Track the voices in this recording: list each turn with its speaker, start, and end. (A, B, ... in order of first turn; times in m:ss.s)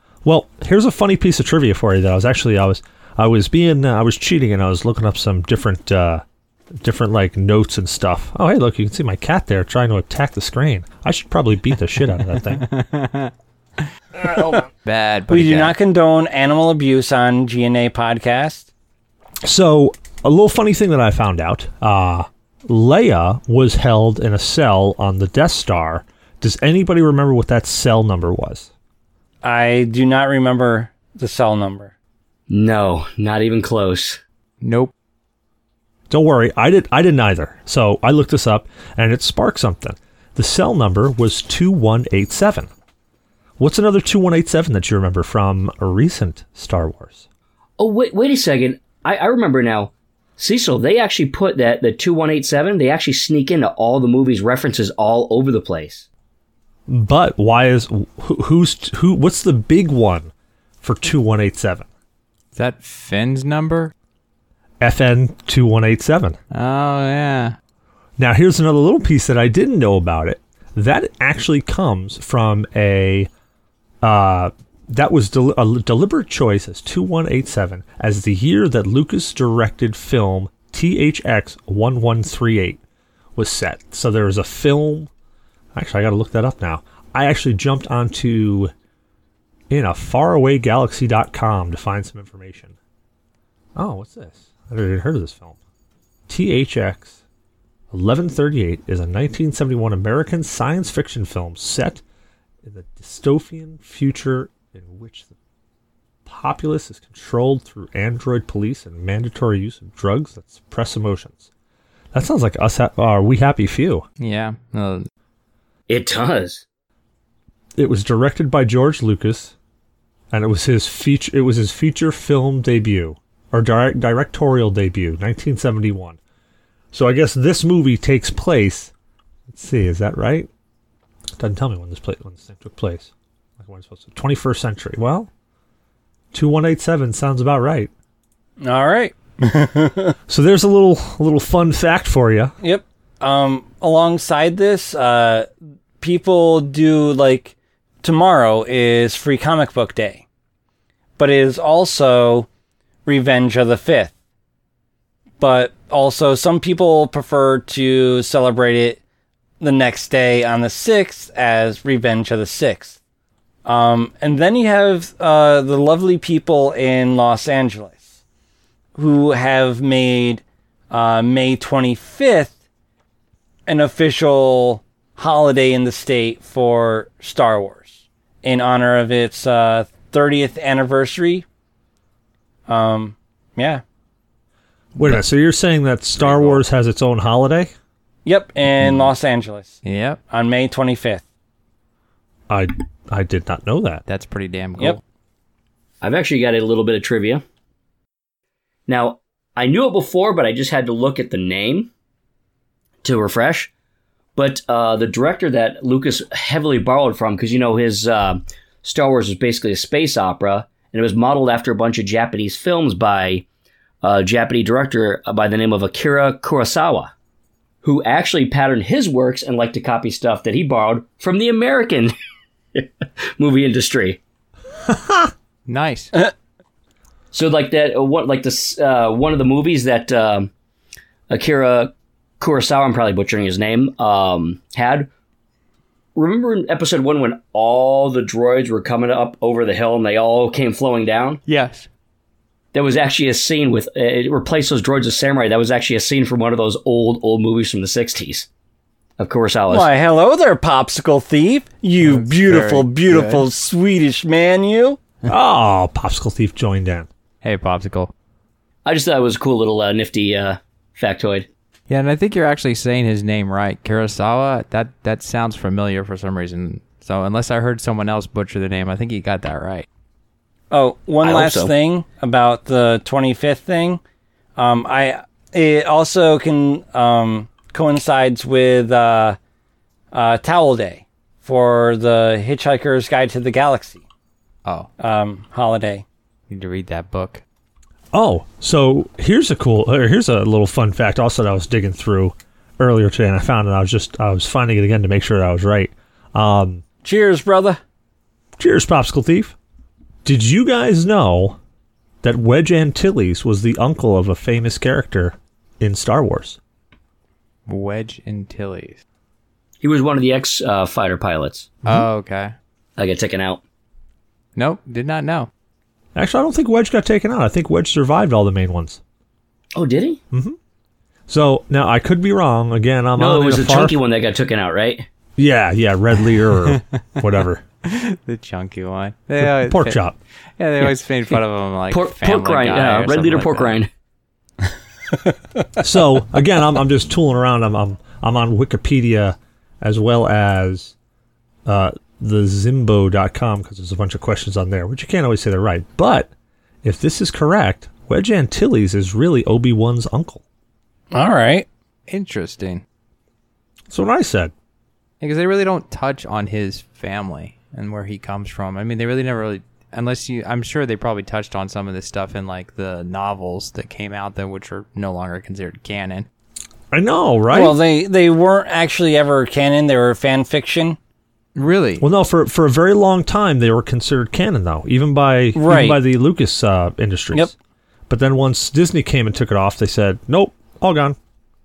0:00.2-0:06.2 A
0:06.8-0:12.7 A
0:12.6-0:13.3 B
0:14.4-0:15.8 B
0:15.3-0:18.7 C
0:19.4-0:28.7 A
0:29.4-0:31.9 C
0:32.5-0:34.2 D
0:34.6-0:34.9 B
0:36.1-0:42.7 A
0:43.6-0:47.2 A
0:47.8-0:56.1 D
0:56.9-1:00.3 A
1:00.8-1:01.9 A
1:02.6-1:03.9 B
1:04.8-1:06.4 A
1:06.5-1:07.6 B
1:08.2-1:13.3 A
1:14.0-1:22.8 A
1:23.4-1:25.1 A
1:25.8-1:28.7 A
1:29.7-1:32.8 A
1:33.8-1:35.6 A
1:36.3-1:37.2 A
1:37.9-1:42.0 A
1:42.6-1:45.3 A
1:46.3-1:51.5 A
1:52.1-1:54.0 A
1:54.2-1:55.1 B
1:55.9-1:56.6 D
1:57.8-1:59.5 A
2:00.3-2:06.2 A
2:06.9-2:08.9 A
2:09.5-2:10.5 A
2:11.4-2:15.3 A
2:16.3-2:17.9 A
2:18.6-2:20.2 C
2:20.3-2:22.5 A
2:22.6-2:25.5 C
2:26.0-2:30.2 C
2:31.2-2:32.5 C
2:33.1-2:34.1 C
2:35.4-2:39.0 C
2:39.6-2:43.0 C
2:43.6-2:48.0 C
2:49.0-2:52.6 C
2:53.7-3:01.4 C
3:02.7-3:03.8 C
3:05.0-3:07.7 A
3:08.2-3:09.8 C
3:09.8-3:10.2 B
3:10.3-3:11.2 C
3:12.5-3:14.0 A
3:14.1-3:15.0 B
3:16.0-3:17.4 D
3:18.9-3:21.9 D
3:23.0-3:23.7 D
3:24.4-3:33.4 D
3:34.0-3:37.1 D
3:37.8-3:42.1 D
3:42.8-3:44.2 D
3:45.7-3:46.2 B
3:47.3-3:50.5 D
3:51.3-3:55.1 D
3:56.2-4:01.4 D
4:01.5-4:01.9 B
4:02.7-4:08.5 D
4:09.2-4:09.9 D
4:09.7-4:15.0 C
4:12.0-4:13.5 B
4:15.3-4:17.1 A
4:17.4-4:18.1 B
4:18.8-4:21.5 D
4:21.9-4:29.9 B
4:30.7-4:34.0 C
4:31.2-4:31.7 D
4:34.6-4:39.4 C
4:40.1-4:44.0 C
4:44.6-4:44.9 B
4:45.0-4:46.0 C
4:46.5-4:47.4 B
4:48.1-4:56.8 A
4:57.0-4:57.8 C
4:58.6-4:59.6 A
5:00.2-5:01.6 A
5:02.2-5:06.6 A
5:07.7-5:09.0 B
5:09.8-5:11.8 D
5:11.8-5:12.5 B
5:13.0-5:13.6 D
5:14.6-5:15.5 B
5:16.2-5:19.0 A
5:19.8-5:20.2 D
5:20.3-5:20.6 A
5:21.3-5:24.0 A
5:23.2-5:25.1 D
5:25.4-5:27.6 A
5:27.8-5:30.0 B
5:29.4-5:30.2 A
5:30.6-5:33.8 B
5:31.9-5:33.9 D
5:35.8-5:40.9 A
5:41.7-5:46.3 A
5:46.8-5:50.4 A
5:51.1-5:51.7 C
5:52.1-5:52.8 B
5:53.9-5:54.5 A
5:55.2-6:06.3 B
6:06.9-6:07.8 A
6:07.5-6:11.0 C
6:11.6-6:12.0 B
6:12.0-6:17.5 A
6:15.6-6:16.0 C
6:18.1-6:21.2 A